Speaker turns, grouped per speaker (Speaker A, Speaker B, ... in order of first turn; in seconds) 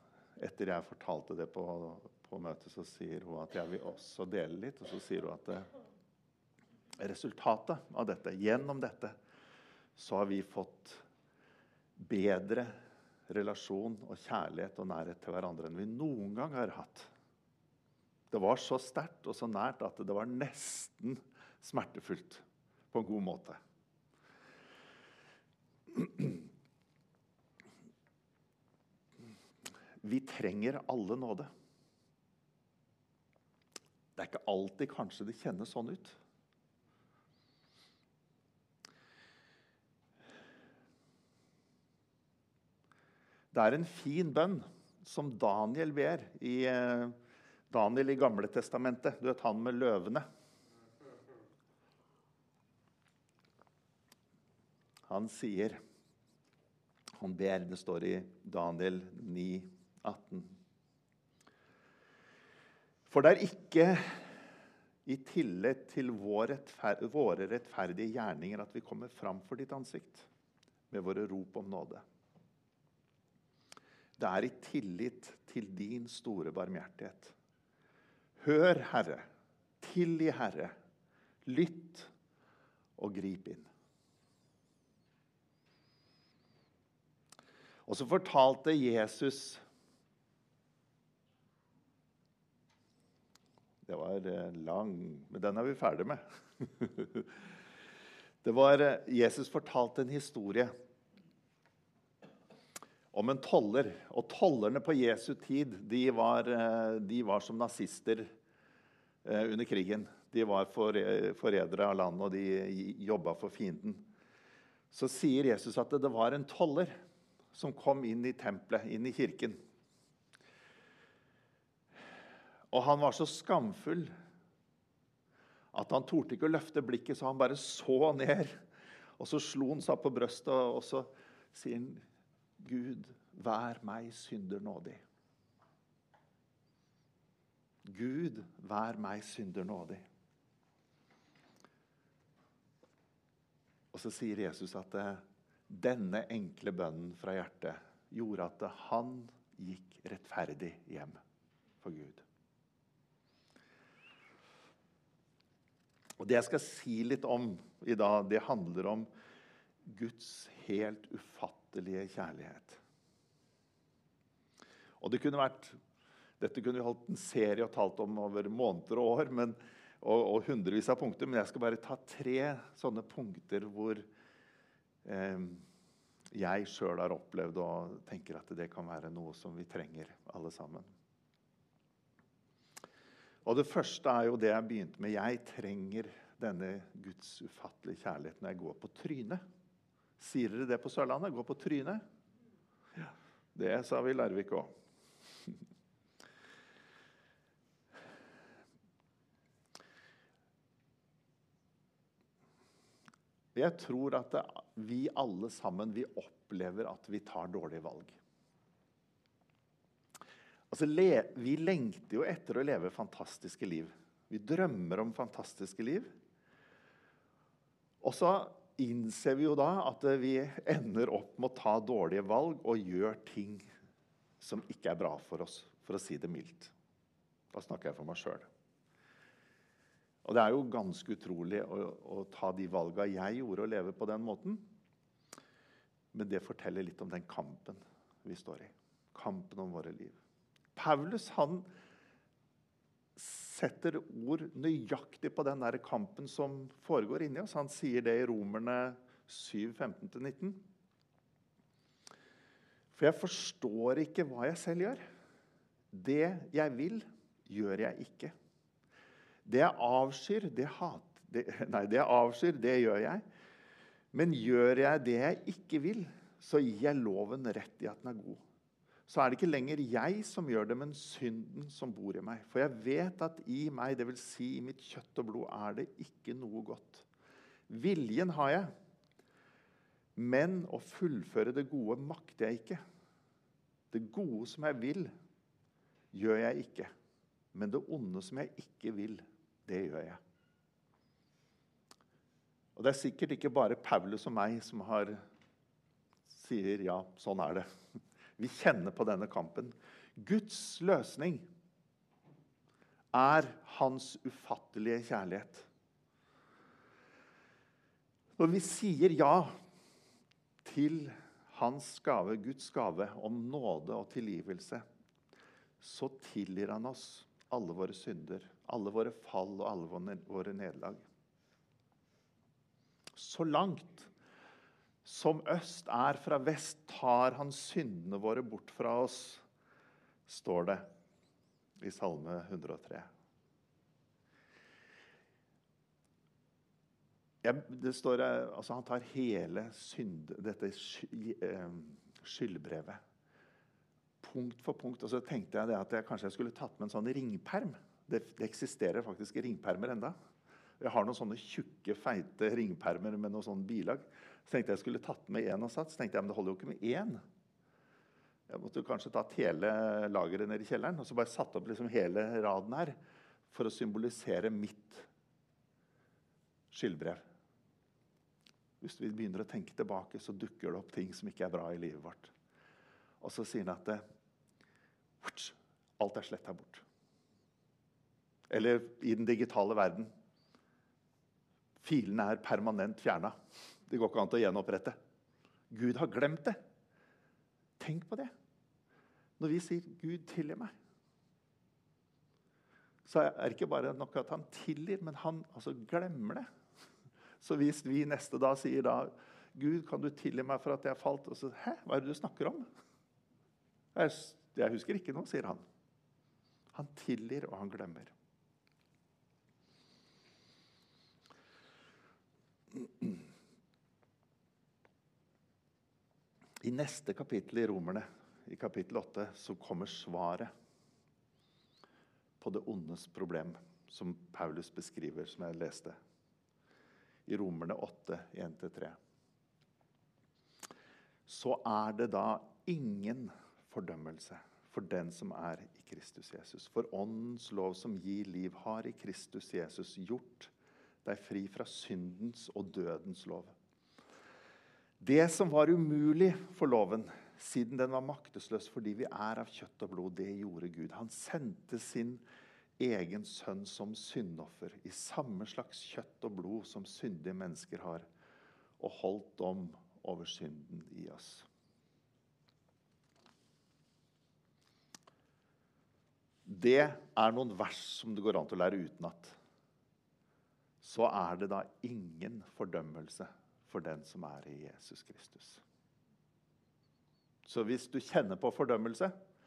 Speaker A: 0.4-5.7, 7.0-9.2, 10.0-11.0, 12.0-12.8, 13.3-17.1, 18.3-23.6, 25.9-26.4, 30.0-31.5, 34.2-36.2, 43.5-47.2, 47.7-50.2, 55.1-55.8, 57.2-60.6, 63.1-64.3, 65.1-70.3, 70.9-72.0, 74.2-77.3, 78.4-79.3, 79.8-80.8, 81.5-82.1, 83.0-83.7, 87.9-89.6, 93.8-97.4, 98.4-100.7, 103.1-108.3, 109.2-114.1, 114.9-117.0, 117.5-119.6, 122.7-124.1, 125.7-128.6, 129.2-132.0, 132.6-135.0, 137.9-140.0, 143.9-151.2, 151.8-152.2, 156.2-159.1, 159.8-162.8, 165.0-165.8, 166.4-174.1, 175.1-175.6, 176.3-180.9, 183.4-189.4, 190.2-192.0, 193.0-194.7, 203.6-208.2, 210.7-216.1, 218.0-223.7, 224.4-226.7, 227.5-228.5, 230.2-234.7, 236.1-240.2, 240.8-241.7, 243.2-250.6, 252.9-255.0, 255.9-258.3, 259.4-263.2, 264.1-268.4, 269.1-277.1, 277.7-278.7, 280.2-282.8, 283.9-285.1, 286.1-286.9, 287.5-290.2, 292.8-295.2, 296.3-297.7, 298.4-301.5, 303.1-305.7, 308.4-309.6, 310.6-314.9, 315.8-321.0, 323.2-324.1, 325.0-329.4, 330.3-330.9, 331.8-333.1, 337.4-343.0, 344.2-350.1, 350.8-357.2, 358.5-363.0, 363.5-365.1, 366.7-367.2, 368.8-372.3, 373.2-374.0, 375.2-376.8, 378.5-380.1, 381.8-383.4, 383.9-385.0, 385.7-386.6, 387.8-388.3, 389.4-390.7, 393.1-396.5, 397.4-402.6, 403.9-405.6, 406.7-408.1, 416.6-420.5, 422.4-426.0, 427.3-429.0, 431.3-440.5, 441.0-443.5, 445.0-452.2, 452.8-458.1, 458.8-461.5, 466.5-469.4, 470.8-475.6, 477.5-479.1